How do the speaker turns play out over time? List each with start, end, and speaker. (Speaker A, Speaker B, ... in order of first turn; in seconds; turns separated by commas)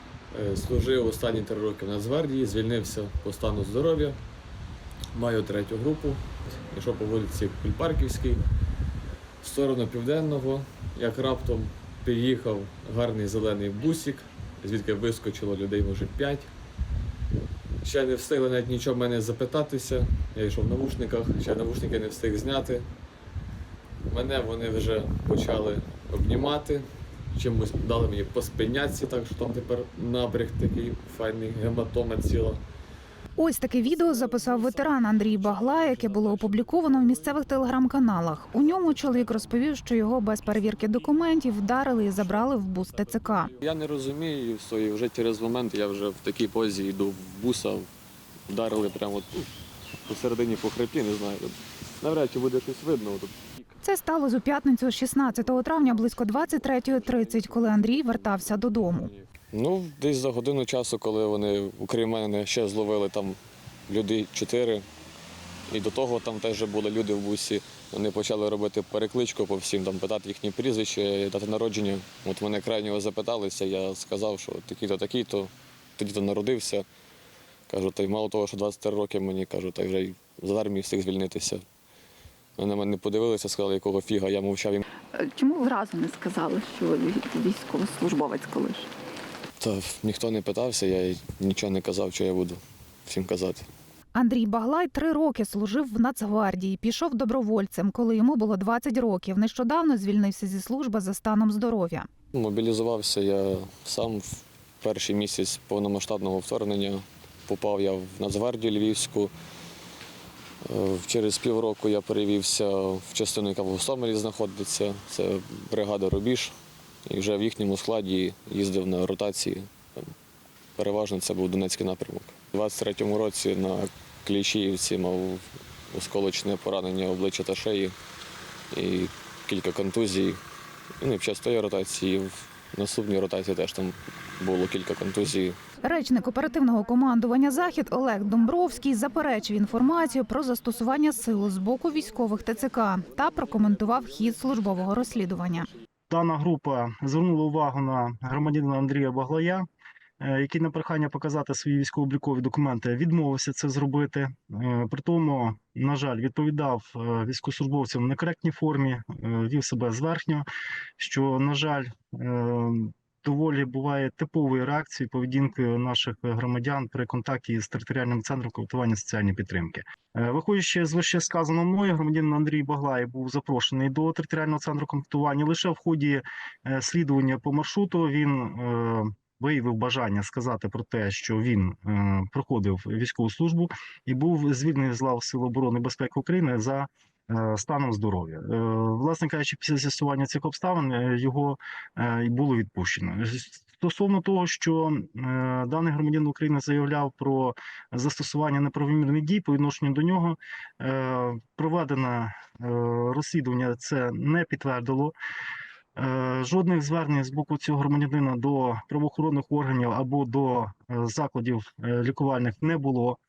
Speaker A: 0.3-4.2, Speaker A: 5.1-8.4, Speaker A: 9.4-16.5, Speaker A: 17.8-22.9, Speaker A: 24.1-32.6, Speaker B: 33.4-43.5, Speaker A: 34.0-37.3, Speaker A: 43.5-47.9, Speaker A: 48.5-49.5, Speaker A: 50.0-53.7, Speaker B: 53.8-59.1, Speaker A: 56.2-64.8, Speaker A: 65.7-76.8, Speaker A: 77.7-81.6, Speaker A: 82.6-84.8, Speaker C: 85.1-88.9, Speaker A: 89.6-93.7, Speaker B: 94.1-102.1, Speaker A: 102.3-109.3, Speaker A: 110.6-120.1, Speaker A: 120.8-127.9, Speaker A: 128.7-130.4, Speaker A: 131.0-135.6, Speaker B: 135.8-145.7, Speaker D: 146.1-149.6, Speaker D: 150.2-160.4, Speaker D: 161.0-205.1, Speaker D: 205.9-213.2